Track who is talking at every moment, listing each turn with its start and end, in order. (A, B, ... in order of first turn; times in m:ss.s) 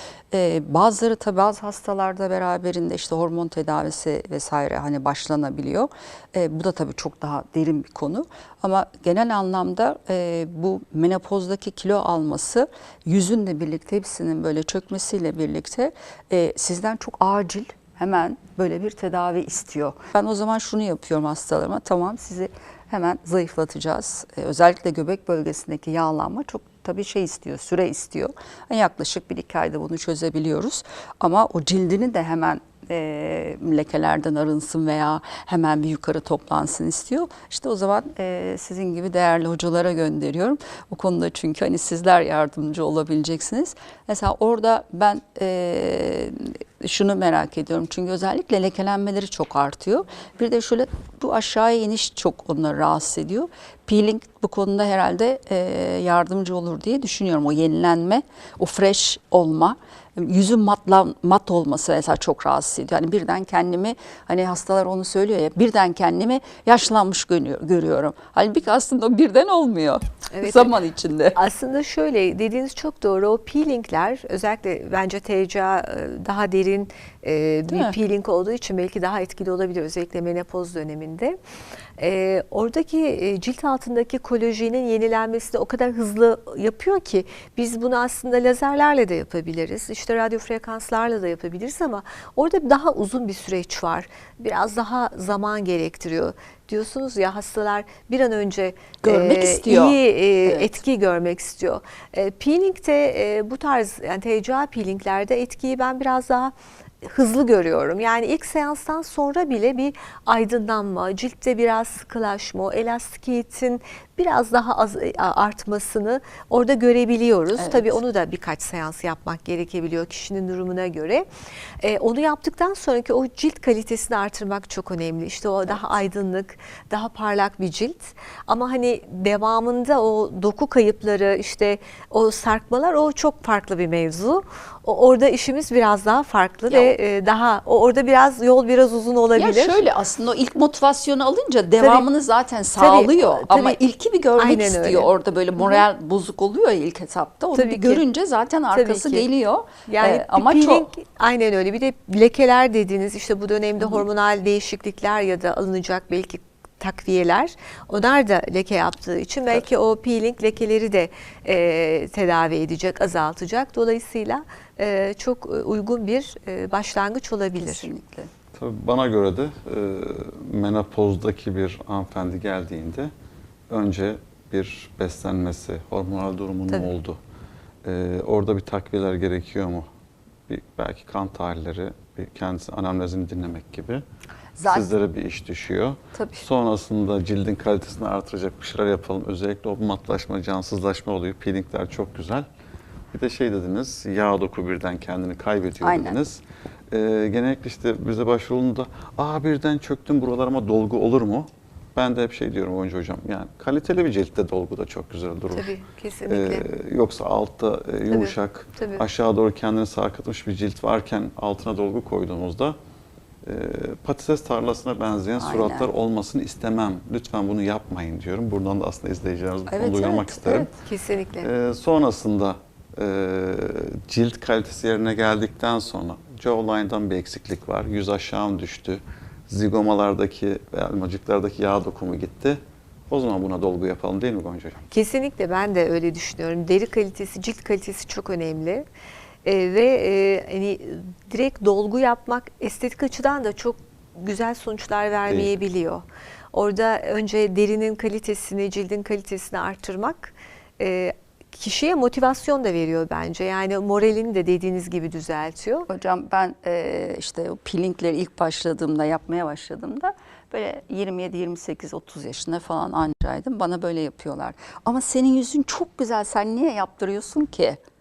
0:00.3-1:11.4 A
1:10.3-1:10.7 B
1:11.3-1:21.4 B
1:17.7-1:17.9 A
1:22.0-2:01.2 B
1:39.0-1:40.8 A
1:57.5-1:58.0 A
2:01.8-2:19.8 B
2:16.7-2:17.0 A
2:19.3-2:30.9 A
2:21.8-2:22.0 B
2:22.8-2:23.8 B
2:24.4-2:25.8 B
2:27.5-2:28.0 B
2:28.7-2:29.3 B
2:29.9-2:47.9 B
2:47.6-2:48.3 A
2:48.5-2:53.1 C
2:53.7-2:57.2 C
2:57.8-2:59.9 C
3:00.5-3:04.0 C
3:04.6-3:04.9 A
3:04.6-3:12.4 C
3:06.1-3:06.4 A
3:13.1-3:25.7 C
3:15.8-3:16.2 A
3:25.5-3:26.6 B
3:26.3-3:32.8 C
3:28.1-3:29.0 B
3:33.4-3:40.7 C
3:35.4-3:35.9 A
3:39.7-3:40.7 A
3:40.8-3:41.5 B
3:41.4-3:54.9 C
3:54.9-3:58.8 B
3:59.4-4:15.9 B
4:15.9-4:27.8 A